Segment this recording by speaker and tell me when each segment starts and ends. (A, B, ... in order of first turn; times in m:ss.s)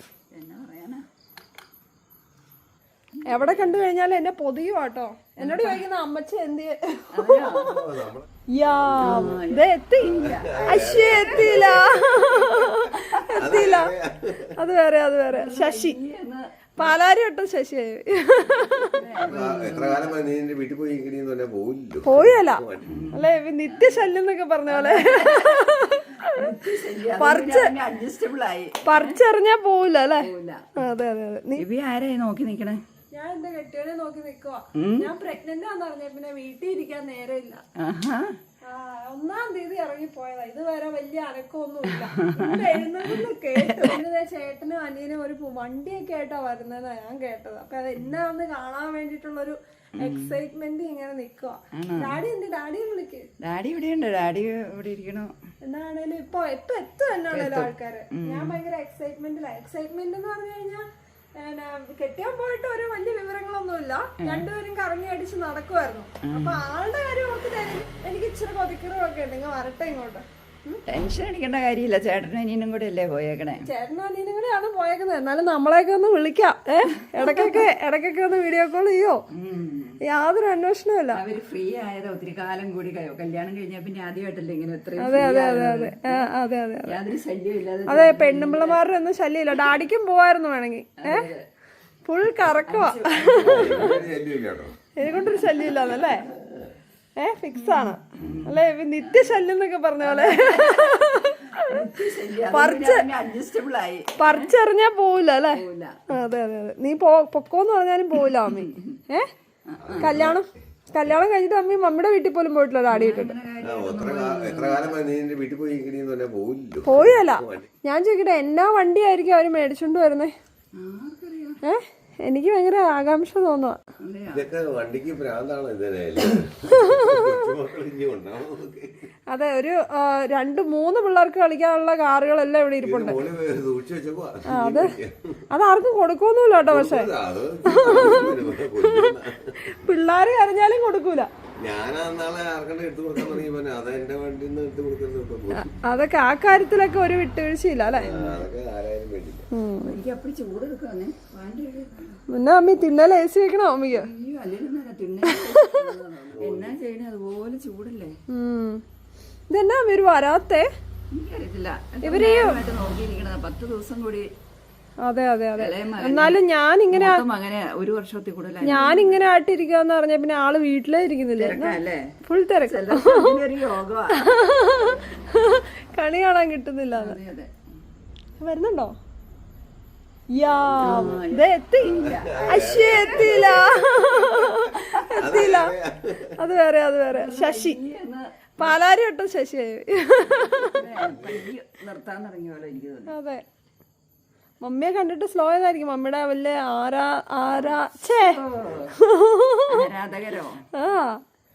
0:00.3-0:01.0 A
0:03.3-0:07.7 B
0:03.3-0:03.6 A
0:05.4-0:05.8 A
0:07.1-0:07.8 A
0:07.6-0:08.3 C
0:08.6-0:10.1 B
0:08.9-0:09.4 C
0:09.0-0:13.2 A
0:10.0-0:11.8 C
0:10.7-0:13.9 B
0:13.4-0:14.5 C
0:14.6-0:16.0 B
0:15.3-0:16.9 A
0:16.8-0:19.0 B
0:18.8-0:20.2 A
0:19.2-0:22.9 C
0:22.0-0:22.6 B
0:22.9-0:24.1 A
0:23.1-0:26.5 B
0:24.7-0:29.2 A
0:27.2-0:27.7 B
0:28.8-0:30.2 B
0:30.2-0:30.7 A
0:30.8-0:31.6 B
0:31.6-0:32.8 A
0:33.1-0:37.6 B
0:34.8-0:35.1 A
0:37.8-0:38.4 A
0:38.6-0:53.2 B
0:42.0-0:44.0 A
0:50.0-0:50.4 A
0:51.8-0:52.2 A
0:53.4-0:55.3 A
0:55.6-1:00.8 B
0:57.3-0:58.6 A
1:01.4-1:10.8 B
1:04.2-1:04.5 A
1:06.3-1:06.6 A
1:10.9-1:13.6 A
1:13.6-1:19.2 B
1:17.1-1:17.6 A
1:19.4-1:20.0 A
1:20.1-1:21.2 B
1:21.1-1:26.3 A
1:25.0-1:26.9 B
1:26.8-1:28.8 A
1:27.9-1:31.3 B
1:31.0-1:31.4 A
1:32.0-1:33.9 B
1:32.4-1:34.1 A
1:33.4-1:34.7 C
1:35.0-1:36.2 B
1:35.1-1:35.4 A
1:36.3-1:36.7 C
1:37.2-1:41.7 B
1:37.6-1:39.4 A
1:40.0-1:44.5 A
1:42.5-1:43.1 B
1:44.2-1:49.3 B
1:45.5-1:46.0 A
1:48.4-1:48.9 A
1:49.7-1:50.2 A
1:49.8-1:50.4 C
1:50.0-1:53.3 B
1:52.9-1:55.0 A
1:53.6-1:57.7 C
1:56.8-2:00.3 B
2:00.8-2:01.6 A
2:01.6-2:03.8 B
2:04.0-2:04.5 A
2:04.3-2:09.1 C
2:06.8-2:07.2 B
2:09.3-2:13.2 B
2:12.8-2:15.4 C
2:14.5-2:14.9 B
2:15.5-2:17.1 B
2:16.7-2:19.5 C
2:17.6-2:19.1 B
2:19.7-2:21.3 B
2:21.6-2:25.7 C
2:25.5-2:28.3 B
2:27.9-2:29.5 C
2:29.5-2:29.9 B
2:29.8-2:32.2 A
2:32.3-2:34.0 B
2:33.9-2:38.2 A
2:36.3-2:36.8 C
2:38.3-2:38.8 B
2:39.5-2:40.6 B
2:41.1-2:44.3 A
2:42.0-2:42.6 B
2:45.0-2:47.2 B
2:45.6-2:46.4 A
2:46.9-2:49.2 A
2:48.6-2:53.4 B
2:51.4-2:52.1 A
2:52.6-2:54.3 A
2:54.2-2:57.2 B
2:56.9-2:57.5 A
2:58.4-2:58.9 B
3:00.4-3:05.7 B
3:00.8-3:04.1 A
3:00.9-3:01.1 C
3:01.8-3:03.6 C
3:05.2-3:06.3 C
3:06.4-3:07.8 B
3:07.1-3:08.4 A
3:08.6-3:10.8 B
3:10.6-3:13.1 A
3:11.0-3:11.5 C
3:13.1-3:13.4 B
3:14.6-3:18.4 B
3:17.6-3:18.9 A
3:19.0-3:19.8 B
3:19.7-3:20.6 A
3:20.8-3:21.2 B